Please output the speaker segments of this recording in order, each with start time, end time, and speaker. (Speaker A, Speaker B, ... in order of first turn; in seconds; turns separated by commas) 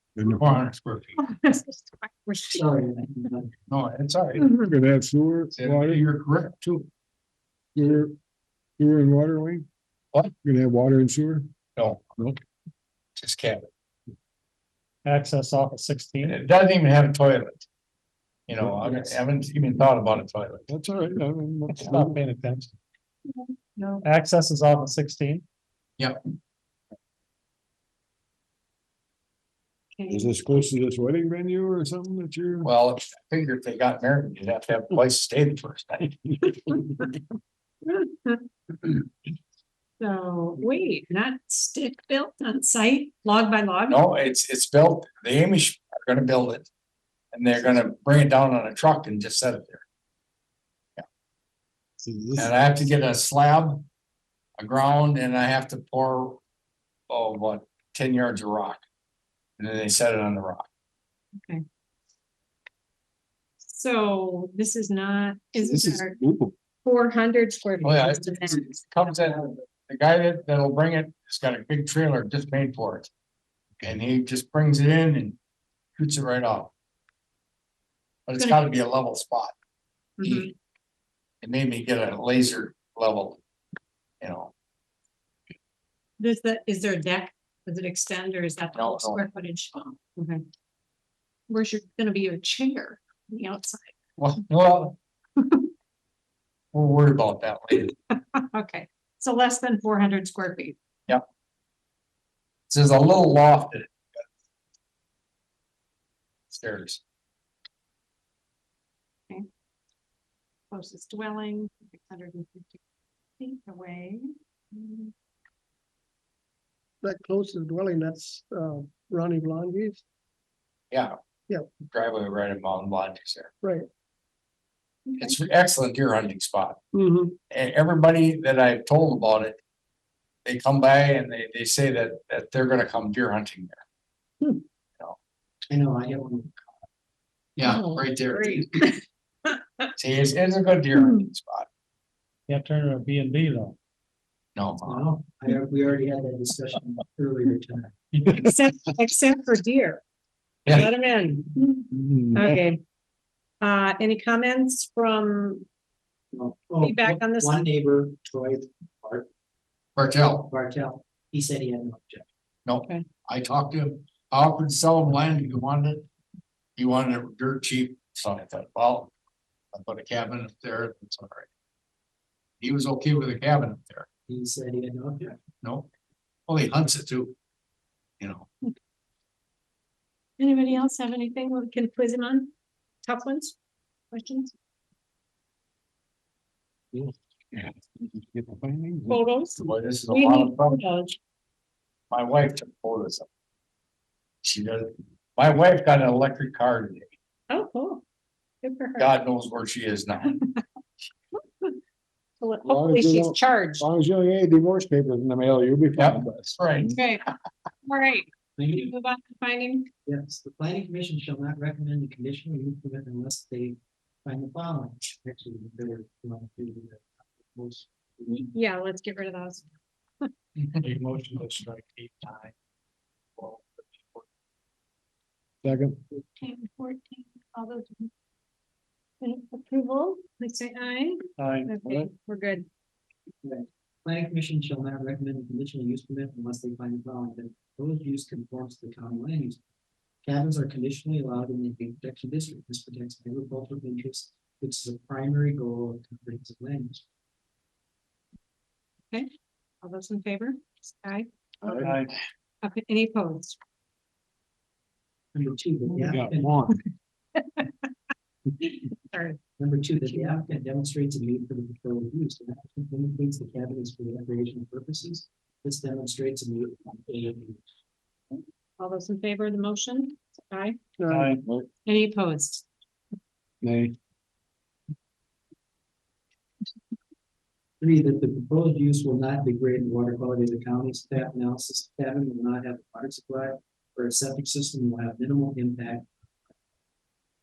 Speaker A: 0.2-0.6, Speaker B: 0.3-1.2, Speaker C: 1.2-2.6, Speaker D: 2.5-3.5, Speaker B: 3.7-4.5, Speaker C: 4.4-4.7, Speaker A: 4.5-6.0, Speaker B: 5.5-6.9, Speaker A: 7.7-8.2, Speaker A: 8.8-9.7, Speaker A: 10.4-11.5, Speaker B: 11.8-12.0, Speaker B: 13.2-13.7, Speaker E: 15.0-16.4, Speaker B: 16.2-17.6, Speaker B: 18.5-20.7, Speaker A: 18.6-19.2, Speaker A: 20.7-22.2, Speaker E: 21.7-22.7, Speaker C: 23.3-24.1, Speaker E: 24.0-25.4, Speaker C: 29.9-30.3, Speaker A: 30.1-32.7, Speaker B: 32.6-36.2, Speaker C: 37.9-38.5, Speaker C: 40.0-44.0, Speaker B: 43.9-46.7, Speaker B: 47.3-49.8, Speaker A: 52.0-52.5, Speaker B: 52.4-53.9, Speaker B: 54.6-56.4, Speaker B: 57.1-58.8, Speaker B: 59.6-60.7, Speaker C: 63.6-66.2, Speaker A: 65.6-66.5, Speaker C: 66.8-69.3, Speaker B: 67.8-73.1, Speaker B: 73.8-75.4, Speaker B: 76.0-76.7, Speaker B: 78.3-79.5, Speaker C: 78.4-78.6, Speaker C: 80.2-80.5, Speaker B: 80.2-80.5, Speaker B: 81.4-83.4, Speaker B: 84.2-84.5, Speaker C: 86.2-90.4, Speaker B: 88.7-89.2, Speaker C: 91.5-93.9, Speaker B: 94.2-95.0, Speaker B: 96.7-97.9, Speaker C: 98.1-100.8, Speaker B: 102.7-103.9, Speaker B: 106.5-107.0, Speaker C: 110.7-112.8, Speaker C: 113.4-115.1, Speaker F: 117.0-120.0, Speaker B: 121.9-123.5, Speaker F: 123.6-123.9, Speaker C: 125.1-125.3, Speaker B: 125.2-126.8, Speaker F: 126.9-127.4, Speaker B: 127.5-129.6, Speaker B: 130.4-133.8, Speaker D: 135.7-136.7, Speaker B: 137.6-138.8, Speaker C: 137.6-139.9, Speaker B: 140.0-141.7, Speaker C: 140.9-141.2, Speaker E: 142.5-143.8, Speaker B: 144.6-145.1, Speaker D: 144.8-147.9, Speaker C: 148.3-150.0, Speaker C: 150.7-152.8, Speaker A: 151.9-152.6, Speaker C: 153.6-155.7, Speaker D: 156.3-159.3, Speaker C: 156.8-157.7, Speaker B: 159.9-160.5, Speaker D: 160.5-162.2, Speaker B: 162.6-166.1, Speaker B: 166.8-169.1, Speaker B: 169.7-171.5, Speaker B: 172.6-174.1, Speaker D: 174.3-175.4, Speaker B: 175.6-175.9, Speaker B: 176.5-177.3, Speaker B: 178.2-178.5, Speaker C: 180.4-182.5, Speaker C: 183.0-183.6, Speaker C: 184.1-184.5, Speaker A: 186.9-189.2, Speaker C: 189.1-191.2, Speaker B: 189.6-190.8, Speaker B: 192.1-193.3, Speaker B: 194.4-197.1, Speaker C: 197.5-198.0, Speaker C: 198.6-199.1, Speaker B: 199.0-200.4, Speaker C: 200.3-200.6, Speaker C: 201.3-201.8, Speaker C: 202.4-203.9, Speaker A: 202.7-206.6, Speaker B: 206.0-207.0, Speaker C: 206.8-207.2, Speaker C: 207.8-209.9, Speaker D: 208.6-208.9, Speaker D: 210.1-218.5, Speaker C: 218.3-219.7, Speaker B: 220.6-220.8, Speaker E: 220.8-222.5, Speaker E: 223.4-224.2, Speaker A: 225.6-226.0, Speaker C: 226.3-228.1, Speaker C: 229.2-232.7, Speaker E: 231.4-232.1, Speaker D: 233.4-239.6, Speaker D: 240.2-247.0, Speaker C: 249.8-251.3, Speaker A: 251.6-252.0, Speaker E: 251.8-252.1, Speaker C: 252.6-253.6, Speaker D: 255.3-256.7, Speaker A: 255.9-256.8, Speaker C: 257.4-257.9, Speaker C: 258.6-259.4, Speaker D: 259.6-267.6, Speaker C: 268.8-270.8, Speaker F: 271.0-271.3, Speaker E: 271.1-271.5, Speaker C: 271.8-272.6, Speaker A: 273.6-273.9, Speaker D: 277.8-286.1